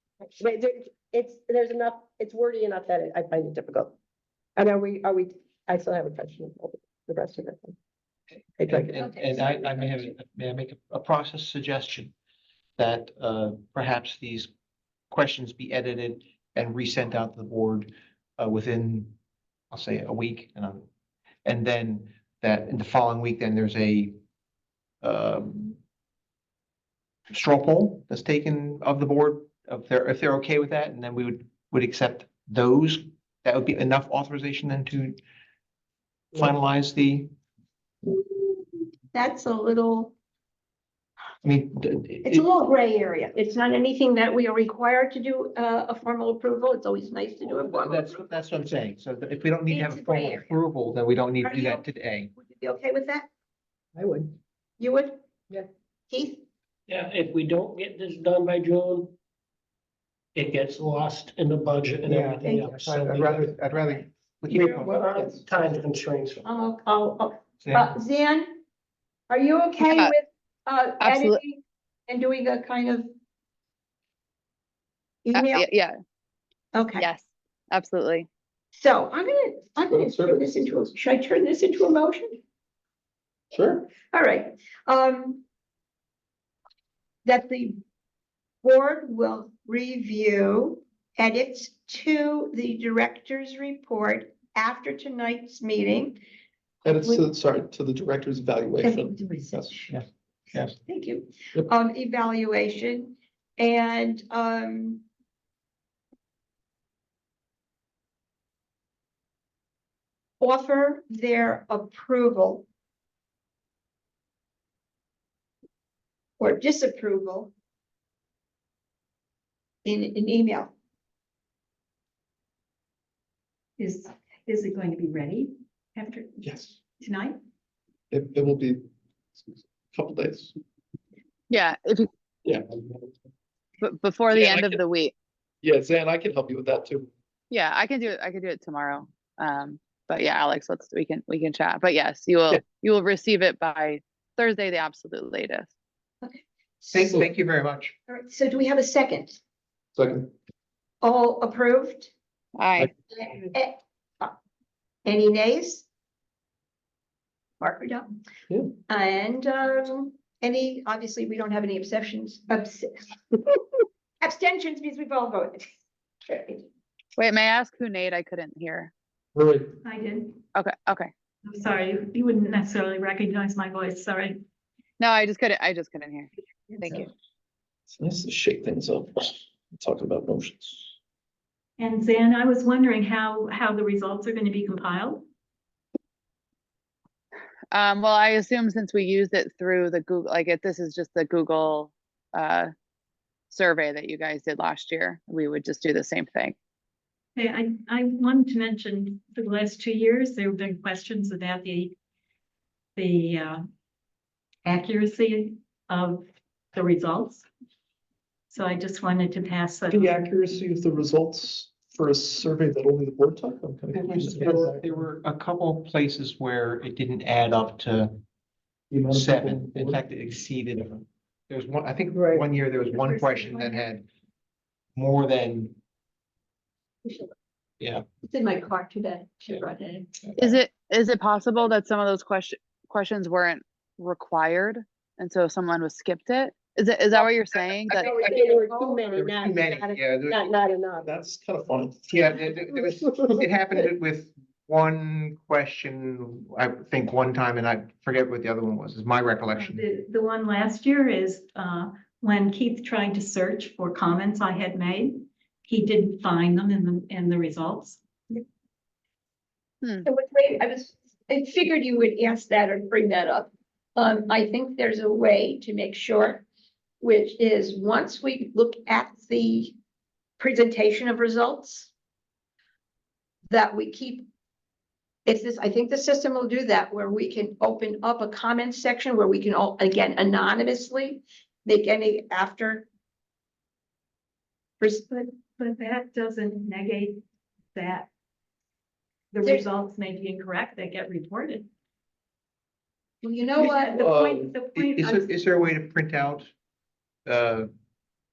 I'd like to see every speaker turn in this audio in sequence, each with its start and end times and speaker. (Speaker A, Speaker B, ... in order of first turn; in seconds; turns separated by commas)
Speaker A: 0.4-3.9, Speaker A: 4.5-7.7, Speaker A: 8.6-9.0, Speaker B: 8.6-12.1, Speaker C: 9.0-10.0, Speaker B: 12.8-14.5, Speaker B: 15.1-19.1, Speaker B: 19.7-20.9, Speaker B: 21.4-24.1, Speaker B: 25.0-25.8, Speaker B: 27.3-35.2, Speaker B: 36.3-37.3, Speaker C: 38.0-38.6, Speaker C: 39.1-40.1, Speaker B: 41.4-42.5, Speaker C: 42.2-48.2, Speaker B: 47.5-52.3, Speaker C: 49.7-50.5, Speaker C: 51.4-51.8, Speaker C: 52.4-53.3, Speaker A: 53.9-54.4, Speaker C: 54.8-55.2, Speaker C: 56.1-56.4, Speaker D: 56.9-59.1, Speaker D: 60.3-63.5, Speaker B: 62.1-64.9, Speaker C: 62.4-62.8, Speaker C: 64.5-65.4, Speaker D: 64.5-66.5, Speaker E: 64.8-65.4, Speaker C: 66.4-68.6, Speaker B: 67.6-67.9, Speaker C: 69.3-73.1, Speaker F: 69.8-70.1, Speaker F: 71.0-71.4, Speaker C: 75.2-75.7, Speaker F: 75.3-75.9, Speaker C: 76.7-77.0, Speaker F: 77.0-78.3, Speaker C: 78.8-82.4, Speaker E: 79.9-80.5, Speaker E: 83.5-83.9, Speaker C: 83.9-85.4, Speaker C: 87.2-87.8, Speaker C: 88.6-96.2, Speaker E: 96.8-99.9, Speaker C: 98.8-99.9, Speaker B: 99.9-100.7, Speaker C: 100.8-105.0, Speaker C: 110.4-112.7, Speaker C: 116.4-117.5, Speaker C: 119.8-120.7, Speaker G: 123.8-126.5, Speaker E: 126.4-126.7, Speaker G: 127.0-127.4, Speaker E: 128.1-130.5, Speaker F: 131.5-132.1, Speaker E: 132.4-133.1, Speaker F: 133.8-135.1, Speaker E: 134.3-134.8, Speaker E: 135.6-137.1, Speaker F: 137.5-145.7, Speaker C: 146.2-147.1, Speaker B: 146.9-147.9, Speaker C: 148.1-149.4, Speaker E: 149.9-150.3, Speaker C: 151.0-152.1, Speaker F: 152.6-152.9, Speaker C: 153.1-154.3, Speaker C: 155.0-155.8, Speaker C: 157.6-158.1, Speaker C: 158.9-163.6, Speaker C: 164.2-165.7, Speaker C: 166.2-166.6, Speaker F: 167.2-168.9, Speaker E: 169.3-169.7, Speaker G: 169.8-170.4, Speaker F: 170.5-171.1, Speaker G: 171.4-174.4, Speaker F: 175.0-177.1, Speaker E: 178.0-180.9, Speaker G: 181.8-185.2, Speaker F: 187.7-192.7, Speaker F: 193.5-196.5, Speaker G: 197.3-201.9, Speaker G: 202.9-203.6, Speaker G: 204.6-207.4, Speaker G: 208.5-210.2, Speaker E: 209.9-215.0, Speaker B: 213.9-218.2, Speaker E: 218.9-220.0, Speaker B: 219.1-224.1, Speaker A: 222.1-222.4, Speaker G: 222.9-223.9, Speaker B: 224.9-225.8, Speaker C: 227.0-227.3, Speaker C: 228.2-230.2, Speaker F: 230.4-238.1, Speaker A: 237.9-241.1, Speaker C: 237.9-239.0, Speaker B: 238.0-238.4, Speaker B: 239.1-240.5, Speaker E: 241.0-242.1, Speaker B: 242.1-249.8, Speaker A: 242.4-243.3, Speaker G: 249.5-258.0, Speaker C: 260.0-266.4, Speaker C: 267.0-269.7, Speaker C: 270.4-271.9, Speaker C: 273.5-274.2, Speaker C: 275.2-282.9, Speaker C: 284.8-285.3, Speaker G: 285.4-287.2, Speaker G: 287.7-288.1, Speaker G: 289.3-291.7, Speaker C: 289.4-289.7, Speaker C: 293.2-294.1, Speaker G: 293.6-295.4, Speaker E: 293.9-294.5, Speaker B: 294.7-296.5, Speaker B: 297.2-297.7